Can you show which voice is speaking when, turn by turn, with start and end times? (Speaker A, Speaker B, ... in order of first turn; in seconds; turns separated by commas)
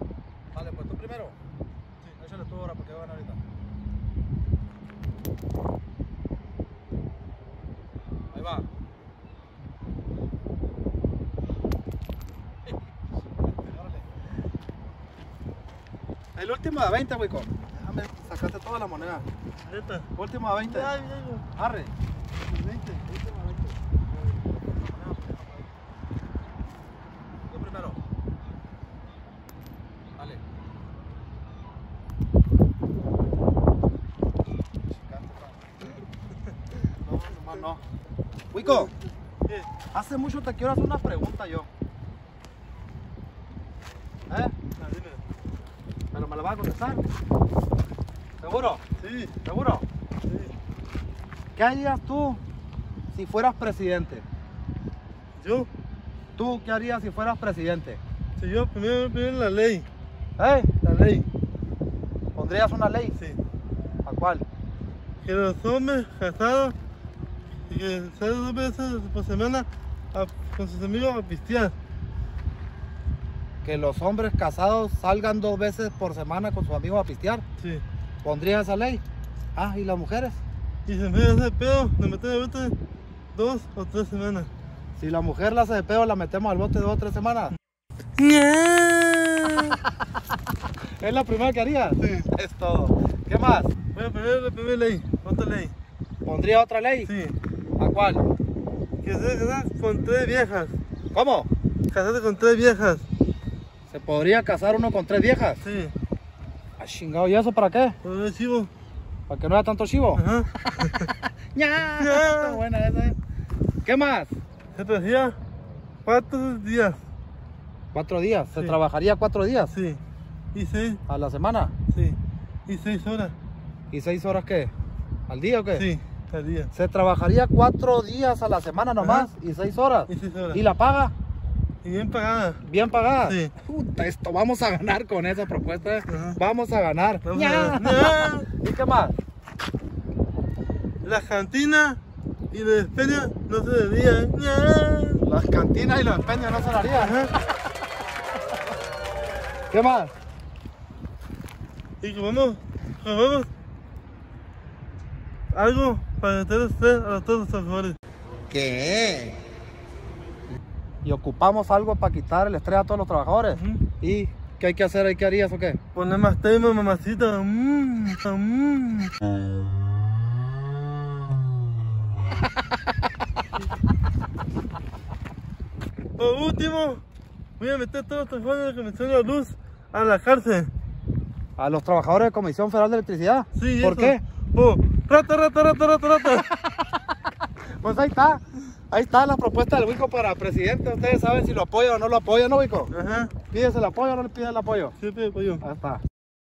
Speaker A: 0.5-1.4, Speaker A: 2.1-3.4, Speaker A: 8.3-8.7, Speaker A: 16.3-19.2, Speaker B: 19.6-20.1, Speaker A: 20.1-20.9, Speaker B: 20.7-21.4, Speaker A: 21.5-21.9, Speaker A: 22.5-23.8, Speaker A: 24.4-25.7, Speaker A: 27.5-28.0, Speaker A: 34.9-35.6, Speaker A: 37.0-37.8, Speaker A: 38.5-38.9, Speaker A: 39.9-41.7, Speaker A: 44.3-44.5, Speaker B: 44.8-45.2, Speaker A: 46.1-47.0, Speaker A: 48.4-48.8, Speaker B: 49.0-49.3, Speaker A: 49.4-49.8, Speaker B: 50.3-50.5, Speaker A: 51.5-52.4, Speaker A: 53.1-54.2, Speaker B: 55.4-55.7, Speaker A: 56.4-58.0, Speaker B: 58.4-59.9, Speaker A: 60.4-60.7, Speaker B: 60.8-61.3, Speaker A: 62.3-63.2, Speaker A: 64.0-64.5, Speaker B: 65.2-66.8, Speaker B: 67.7-71.7, Speaker A: 73.6-77.4, Speaker B: 77.6-77.8, Speaker A: 78.2-79.0, Speaker A: 79.5-80.3, Speaker B: 80.8-82.7, Speaker B: 83.3-84.5, Speaker A: 85.0-87.5, Speaker B: 88.2-89.8, Speaker A: 91.0-93.7, Speaker B: 93.9-95.7, Speaker A: 96.2-97.1, Speaker B: 97.0-97.3, Speaker A: 97.8-98.2, Speaker B: 99.0-100.8, Speaker A: 101.1-101.5, Speaker B: 101.9-103.0, Speaker A: 103.9-105.6, Speaker B: 105.6-105.9, Speaker A: 106.8-108.0, Speaker B: 108.0-108.7, Speaker A: 109.3-110.2, Speaker B: 110.2-111.1, Speaker A: 111.0-113.2, Speaker B: 112.0-112.6, Speaker A: 113.8-114.3, Speaker B: 114.7-115.4, Speaker B: 116.0-117.0, Speaker A: 117.9-119.7, Speaker B: 119.7-120.0, Speaker B: 120.5-121.0, Speaker A: 121.1-121.7, Speaker B: 121.9-123.3, Speaker A: 123.9-124.7, Speaker A: 125.3-125.9, Speaker B: 125.8-126.7, Speaker A: 126.7-131.1, Speaker B: 129.0-129.3, Speaker B: 130.1-130.6, Speaker B: 131.8-132.6, Speaker A: 132.6-139.1, Speaker B: 133.2-133.5, Speaker B: 136.1-136.4, Speaker B: 137.2-138.5, Speaker B: 141.0-142.0, Speaker B: 142.5-145.2, Speaker A: 145.2-147.2, Speaker B: 147.0-147.3, Speaker A: 149.7-150.1, Speaker B: 152.0-153.5, Speaker B: 155.5-158.0, Speaker A: 158.5-159.4, Speaker A: 161.0-165.8, Speaker B: 163.5-163.8, Speaker B: 165.9-169.1, Speaker B: 176.2-177.0, Speaker B: 177.6-180.7, Speaker A: 181.6-184.2, Speaker B: 183.6-186.5, Speaker A: 186.6-186.8, Speaker A: 187.8-192.9, Speaker B: 192.9-193.3, Speaker A: 193.5-194.9, Speaker B: 195.0-195.6, Speaker A: 195.6-196.0